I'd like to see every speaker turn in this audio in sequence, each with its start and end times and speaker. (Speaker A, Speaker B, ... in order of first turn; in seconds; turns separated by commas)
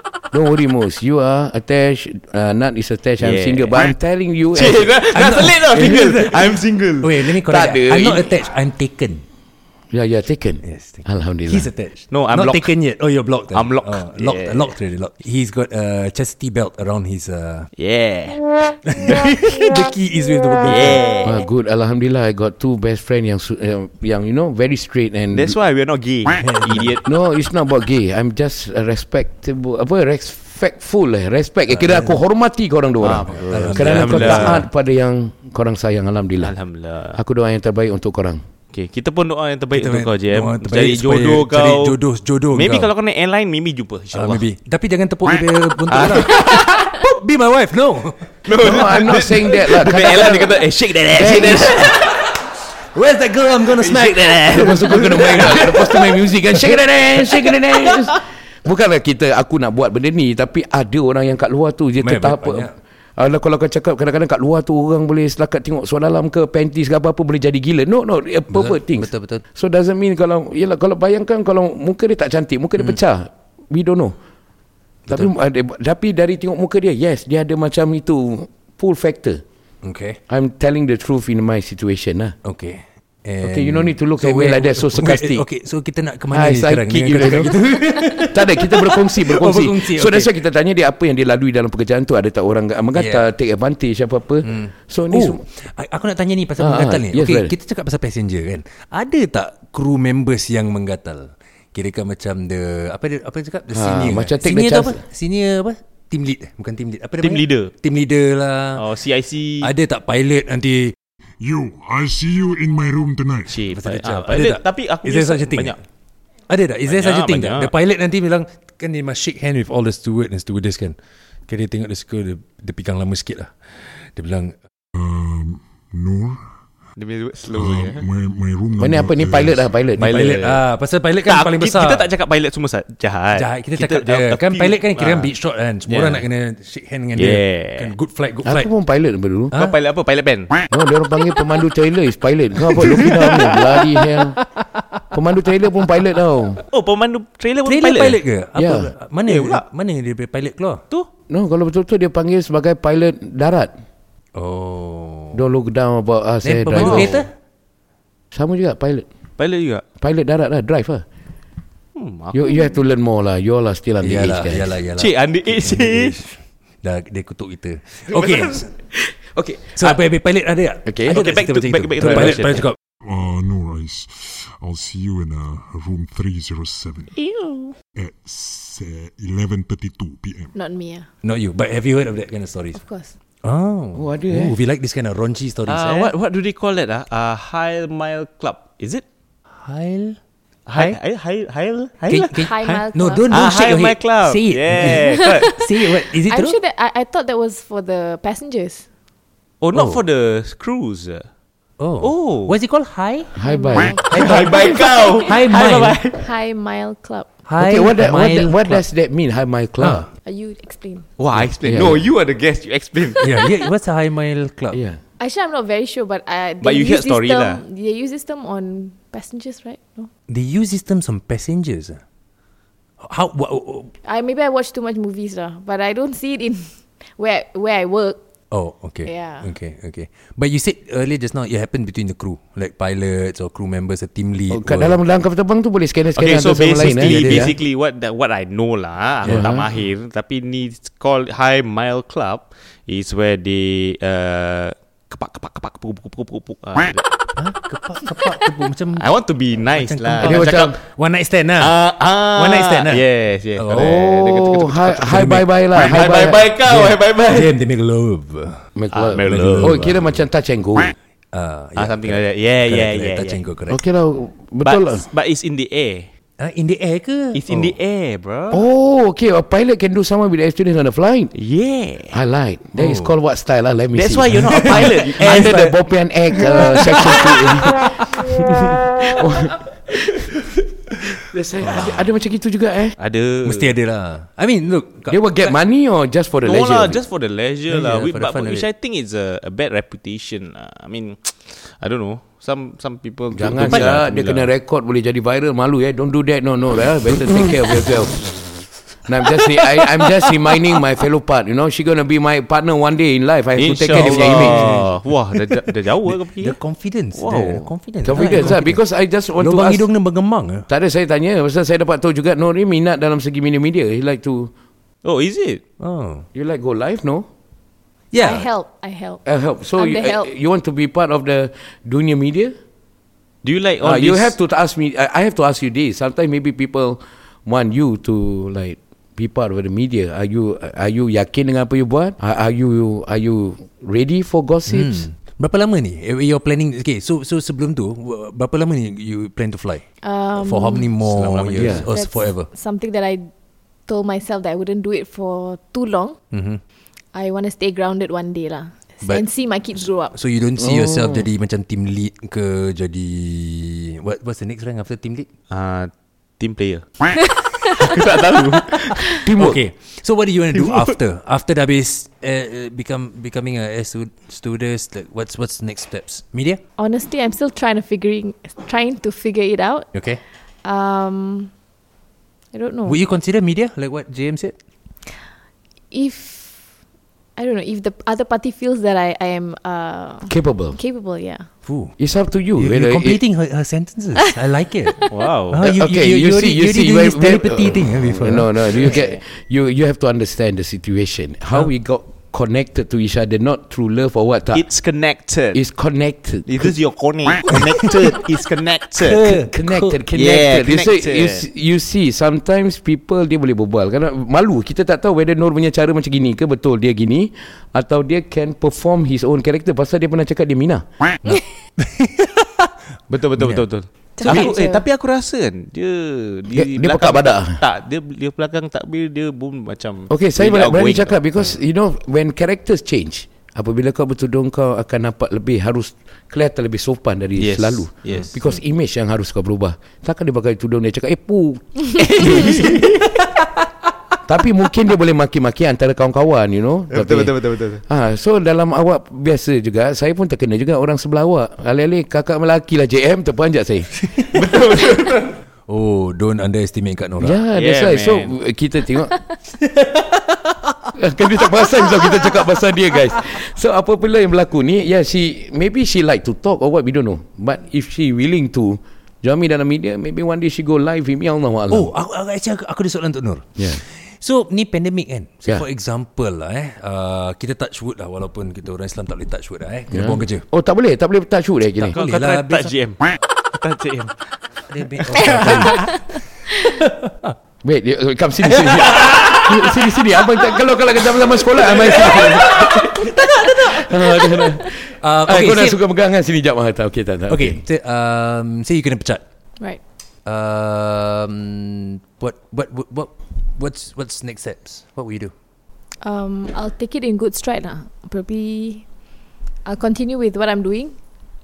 Speaker A: 0.3-5.0, Speaker B: 3.2-3.9, Speaker B: 4.5-7.3, Speaker C: 5.1-9.2, Speaker A: 7.4-8.4, Speaker A: 9.9-11.7, Speaker C: 10.6-17.7, Speaker B: 12.1-12.7, Speaker B: 13.5-14.7, Speaker B: 17.8-18.4, Speaker C: 18.9-21.0, Speaker B: 19.0-19.3, Speaker B: 20.6-21.4, Speaker A: 21.2-25.6, Speaker B: 25.3-27.0, Speaker C: 26.4-26.9, Speaker A: 27.0-36.5, Speaker C: 31.7-32.2, Speaker B: 33.0-34.6, Speaker C: 33.3-34.6, Speaker B: 36.4-37.2, Speaker A: 37.1-38.4, Speaker B: 38.7-42.0, Speaker C: 39.7-42.9, Speaker B: 42.5-44.4, Speaker C: 44.1-48.3, Speaker B: 45.9-46.8, Speaker B: 48.5-52.0, Speaker A: 48.6-51.9, Speaker C: 51.7-52.1, Speaker C: 52.9-58.1, Speaker B: 53.8-55.4, Speaker A: 54.5-74.2, Speaker C: 62.0-62.7, Speaker C: 68.5-69.4, Speaker A: 75.1-79.4, Speaker C: 79.8-80.2, Speaker A: 80.3-82.3, Speaker C: 82.4-90.3, Speaker A: 83.4-85.4, Speaker A: 86.3-87.5, Speaker A: 88.2-95.4, Speaker C: 92.9-93.2, Speaker C: 94.4-108.8, Speaker A: 96.6-97.5, Speaker A: 103.7-105.0, Speaker B: 107.2-107.7, Speaker B: 108.7-109.7, Speaker C: 109.6-110.9, Speaker D: 111.4-113.6, Speaker B: 113.5-115.8, Speaker C: 113.7-115.8, Speaker C: 116.5-121.0, Speaker B: 116.9-117.7, Speaker C: 121.5-124.5, Speaker D: 124.9-126.4, Speaker B: 127.0-128.0, Speaker D: 127.5-129.6, Speaker A: 128.8-130.2, Speaker C: 129.9-132.1, Speaker B: 130.0-130.6, Speaker B: 131.2-135.3, Speaker C: 133.3-138.7, Speaker B: 135.8-136.2, Speaker B: 137.2-137.9, Speaker A: 138.4-139.5, Speaker B: 139.5-140.6, Speaker A: 140.7-144.4, Speaker B: 143.1-143.4, Speaker A: 145.1-146.6, Speaker B: 146.7-148.2, Speaker C: 147.6-150.8, Speaker A: 148.6-148.9, Speaker B: 149.3-149.6, Speaker A: 151.3-153.7, Speaker C: 154.3-155.4, Speaker A: 155.3-157.2, Speaker C: 156.4-157.3, Speaker B: 156.7-157.2, Speaker A: 158.3-159.1, Speaker B: 159.4-159.8, Speaker A: 160.0-161.0, Speaker B: 161.9-162.7, Speaker A: 162.3-164.7, Speaker C: 164.0-168.7, Speaker B: 165.0-166.1, Speaker B: 168.1-168.5, Speaker A: 169.3-169.8, Speaker C: 169.8-172.8, Speaker A: 170.8-171.2, Speaker B: 171.1-172.7, Speaker A: 172.0-172.4, Speaker D: 173.0-177.1, Speaker E: 177.2-177.7, Speaker D: 177.9-180.5, Speaker E: 180.5-181.1, Speaker C: 181.2-182.8, Speaker E: 182.7-183.1, Speaker C: 183.4-186.1, Speaker A: 183.9-184.6, Speaker B: 185.7-189.0, Speaker C: 189.6-190.2, Speaker C: 190.7-191.0, Speaker B: 190.7-192.3, Speaker C: 192.1-196.6, Speaker E: 192.3-193.3, Speaker B: 193.3-195.5, Speaker E: 194.8-198.8, Speaker B: 199.6-201.3, Speaker C: 199.7-200.0, Speaker C: 201.8-203.3, Speaker B: 202.0-202.6, Speaker A: 203.3-204.0, Speaker E: 203.4-205.4, Speaker B: 204.1-206.2, Speaker C: 204.1-204.4, Speaker C: 205.2-206.0, Speaker E: 206.1-207.3, Speaker C: 207.4-208.8, Speaker A: 207.6-210.1, Speaker C: 209.8-210.1, Speaker E: 210.2-211.1, Speaker B: 211.2-213.3, Speaker A: 211.6-212.0, Speaker C: 213.2-214.8, Speaker A: 214.7-215.0, Speaker E: 215.2-220.1, Speaker B: 216.6-217.6, Speaker C: 220.3-222.0, Speaker C: 223.0-223.9, Speaker E: 224.0-228.2, Speaker C: 228.5-235.0, Speaker E: 229.0-229.5, Speaker A: 234.5-237.5, Speaker B: 236.2-247.1, Speaker C: 236.8-237.5, Speaker C: 239.2-239.5, Speaker A: 239.2-239.6, Speaker C: 247.4-249.1, Speaker B: 249.0-250.7, Speaker C: 249.7-251.8, Speaker A: 250.2-250.8, Speaker B: 251.6-255.0, Speaker C: 252.3-253.0, Speaker C: 253.5-255.4, Speaker A: 253.7-256.4, Speaker B: 255.7-257.5, Speaker C: 256.6-258.6, Speaker A: 258.8-260.9, Speaker B: 258.9-259.8, Speaker C: 259.2-260.2, Speaker C: 261.3-263.8, Speaker B: 261.8-263.4, Speaker A: 263.7-265.0, Speaker B: 264.6-266.1, Speaker C: 266.4-267.7, Speaker B: 267.3-268.6, Speaker A: 268.5-271.3, Speaker B: 271.3-272.1, Speaker A: 272.1-280.3, Speaker C: 272.8-273.1, Speaker B: 273.9-275.7, Speaker C: 274.5-275.6, Speaker A: 281.1-282.9, Speaker C: 281.6-282.0, Speaker B: 283.0-283.7, Speaker C: 283.4-285.5, Speaker A: 285.1-287.0, Speaker B: 286.4-294.5, Speaker C: 287.7-288.7, Speaker A: 293.3-298.4, Speaker C: 293.5-294.0, Speaker A: 299.1-304.6, Speaker B: 303.6-306.6, Speaker C: 303.9-304.9, Speaker C: 306.1-308.8, Speaker B: 307.1-308.5, Speaker A: 308.0-309.9, Speaker C: 309.4-310.7, Speaker A: 310.7-314.5, Speaker B: 315.0-315.6, Speaker C: 315.8-316.2, Speaker A: 316.3-317.2, Speaker C: 318.1-318.5, Speaker E: 318.1-319.2, Speaker A: 319.2-322.5, Speaker E: 319.8-320.3, Speaker B: 323.4-324.3, Speaker A: 323.8-335.1, Speaker C: 334.7-339.8, Speaker E: 340.0-340.9, Speaker C: 340.4-342.5, Speaker B: 341.0-341.9, Speaker A: 341.6-341.8, Speaker E: 341.9-343.3, Speaker E: 343.9-346.2, Speaker C: 346.3-346.6, Speaker E: 347.1-350.1, Speaker C: 350.1-355.3, Speaker A: 350.6-351.3, Speaker B: 355.5-357.1, Speaker B: 357.8-359.0, Speaker A: 359.2-359.6, Speaker C: 359.4-366.6, Speaker B: 360.5-360.9, Speaker E: 366.8-369.9, Speaker C: 369.9-370.2, Speaker E: 370.6-371.5, Speaker E: 372.5-373.0, Speaker C: 372.9-374.6, Speaker E: 375.9-376.7, Speaker E: 377.4-381.5, Speaker A: 380.3-380.8, Speaker C: 381.6-381.9, Speaker A: 382.0-383.2, Speaker C: 382.6-389.0, Speaker B: 385.1-385.6, Speaker A: 385.6-394.6, Speaker B: 394.5-395.6, Speaker A: 395.5-396.7, Speaker B: 396.4-399.3, Speaker C: 399.0-400.0, Speaker A: 399.2-410.8, Speaker B: 400.1-401.4, Speaker C: 411.2-412.7, Speaker B: 413.1-421.2, Speaker C: 413.4-413.6, Speaker E: 414.2-414.8, Speaker A: 416.5-417.6, Speaker A: 420.1-432.8, Speaker B: 427.4-428.3, Speaker B: 432.3-432.9, Speaker A: 434.2-443.9, Speaker B: 436.9-437.8, Speaker B: 444.3-445.3, Speaker C: 445.7-447.4, Speaker A: 447.2-449.1, Speaker B: 447.5-448.3, Speaker C: 449.8-450.2, Speaker A: 450.9-461.9, Speaker C: 461.7-470.4, Speaker A: 463.6-463.8, Speaker A: 469.9-471.9, Speaker C: 471.9-472.7, Speaker B: 471.9-474.2, Speaker C: 474.7-476.1, Speaker B: 475.1-475.9, Speaker C: 476.6-477.1, Speaker A: 477.6-487.6, Speaker C: 478.6-479.6, Speaker C: 481.7-485.8, Speaker C: 487.3-489.2, Speaker C: 490.2-495.3, Speaker E: 496.0-498.8, Speaker E: 499.6-500.9